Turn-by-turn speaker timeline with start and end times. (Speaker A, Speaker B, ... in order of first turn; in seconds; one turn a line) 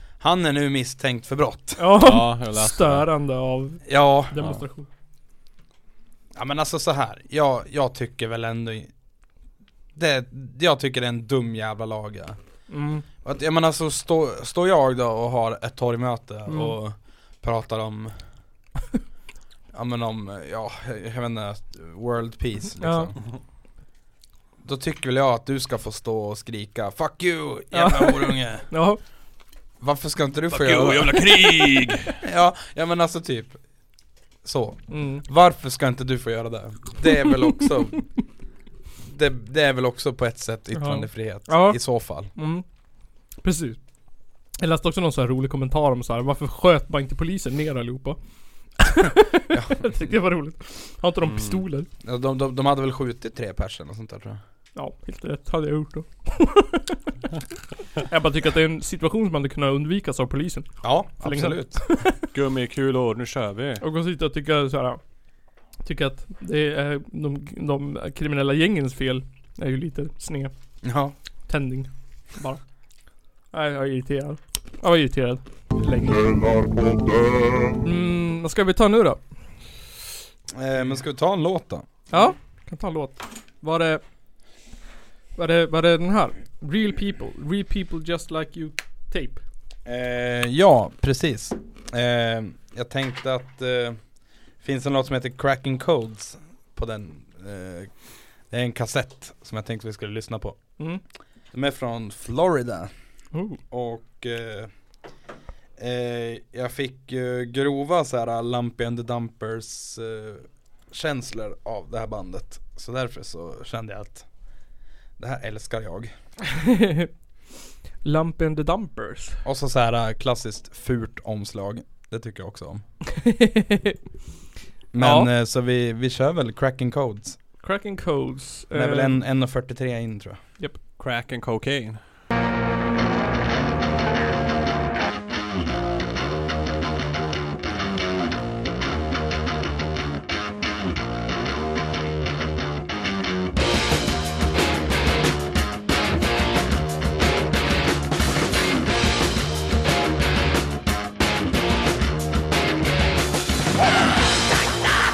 Speaker A: 0.2-1.9
Speaker B: 1.8-4.9
Speaker C: 2.0-3.0
Speaker A: 3.9-4.4
Speaker A: 6.3-8.9
Speaker A: 9.9-12.4
Speaker B: 12.7-13.0
Speaker A: 13.2-18.4
Speaker B: 16.5-16.7
Speaker A: 19.7-23.2
Speaker B: 22.8-23.1
Speaker A: 24.6-28.9
Speaker B: 27.7-29.0
Speaker A: 29.8-31.3
Speaker C: 30.5-32.1
Speaker A: 32.2-38.2
Speaker B: 34.9-35.2
Speaker A: 39.0-42.3
Speaker B: 40.7-51.9
Speaker A: 49.5-50.1
Speaker C: 51.2-51.5
Speaker A: 52.0-54.4
Speaker B: 54.7-57.0
Speaker B: 58.1-62.1
Speaker A: 60.8-62.0
Speaker C: 62.1-63.8
Speaker B: 63.8-65.2
Speaker B: 65.8-70.9
Speaker A: 70.8-71.1
Speaker B: 71.5-72.7
Speaker B: 73.5-76.5
Speaker B: 77.8-79.3
Speaker A: 80.5-81.8
Speaker B: 82.1-84.0
Speaker B: 85.3-89.4
Speaker A: 89.8-100.8
Speaker A: 101.5-104.7
Speaker B: 103.3-103.6
Speaker A: 105.8-114.7
Speaker A: 115.2-116.1
Speaker B: 118.0-119.4
Speaker A: 119.4-122.9
Speaker B: 123.3-123.9
Speaker A: 124.9-127.4
Speaker B: 125.0-125.3
Speaker B: 127.6-129.2
Speaker A: 128.7-130.6
Speaker C: 131.0-132.0